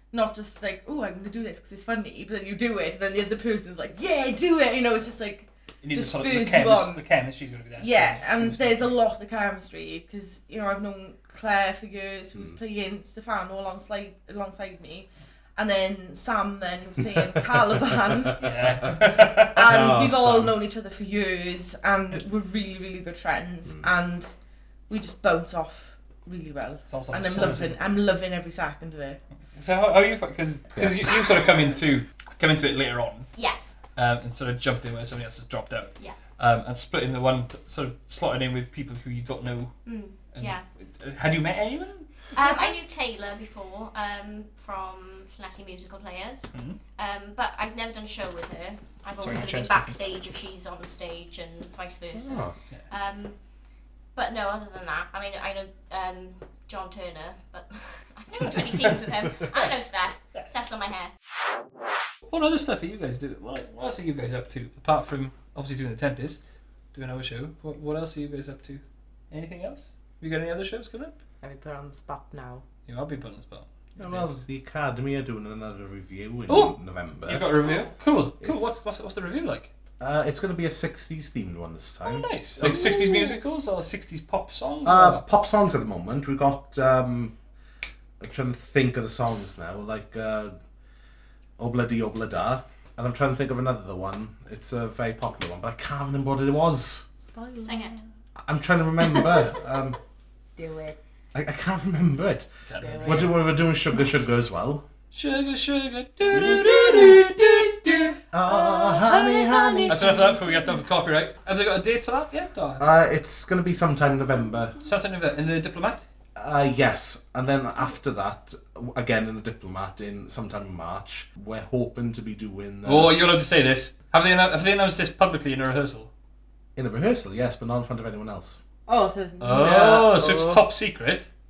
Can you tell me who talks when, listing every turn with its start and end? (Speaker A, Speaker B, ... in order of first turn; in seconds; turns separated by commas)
Speaker A: 0.1-7.0, Speaker B: 5.8-9.0, Speaker A: 7.8-18.4, Speaker C: 17.9-20.6, Speaker B: 18.4-19.6, Speaker A: 19.5-24.3, Speaker A: 24.9-29.2, Speaker B: 26.9-27.8, Speaker B: 29.6-33.3, Speaker C: 30.8-31.1, Speaker D: 33.4-33.8, Speaker B: 34.0-39.8, Speaker D: 39.9-40.6, Speaker B: 40.3-42.3, Speaker D: 42.3-53.4, Speaker B: 46.5-46.8, Speaker B: 49.2-49.7, Speaker C: 52.1-52.5, Speaker D: 54.1-61.1, Speaker B: 58.5-58.8, Speaker B: 62.3-71.2, Speaker A: 71.4-72.6, Speaker B: 72.9-74.4, Speaker C: 74.0-77.5, Speaker B: 76.5-79.7, Speaker A: 77.6-78.0, Speaker C: 78.4-78.8, Speaker C: 80.0-83.0, Speaker B: 82.0-85.2, Speaker A: 82.6-83.4, Speaker C: 84.8-87.3, Speaker C: 88.2-90.6, Speaker C: 91.6-97.0, Speaker A: 97.2-98.0, Speaker D: 97.6-98.0, Speaker C: 98.4-100.0, Speaker A: 99.1-99.6, Speaker A: 100.6-101.0, Speaker C: 101.3-102.5, Speaker B: 102.7-103.4, Speaker A: 102.8-103.4, Speaker C: 103.0-104.8, Speaker B: 105.1-108.2, Speaker A: 106.3-110.8, Speaker C: 106.3-106.7, Speaker C: 108.3-110.0, Speaker B: 109.9-112.8, Speaker C: 112.8-114.8, Speaker B: 114.8-116.1, Speaker C: 116.4-123.2, Speaker B: 122.8-126.1, Speaker C: 126.8-128.6, Speaker A: 128.9-130.6, Speaker B: 129.4-131.3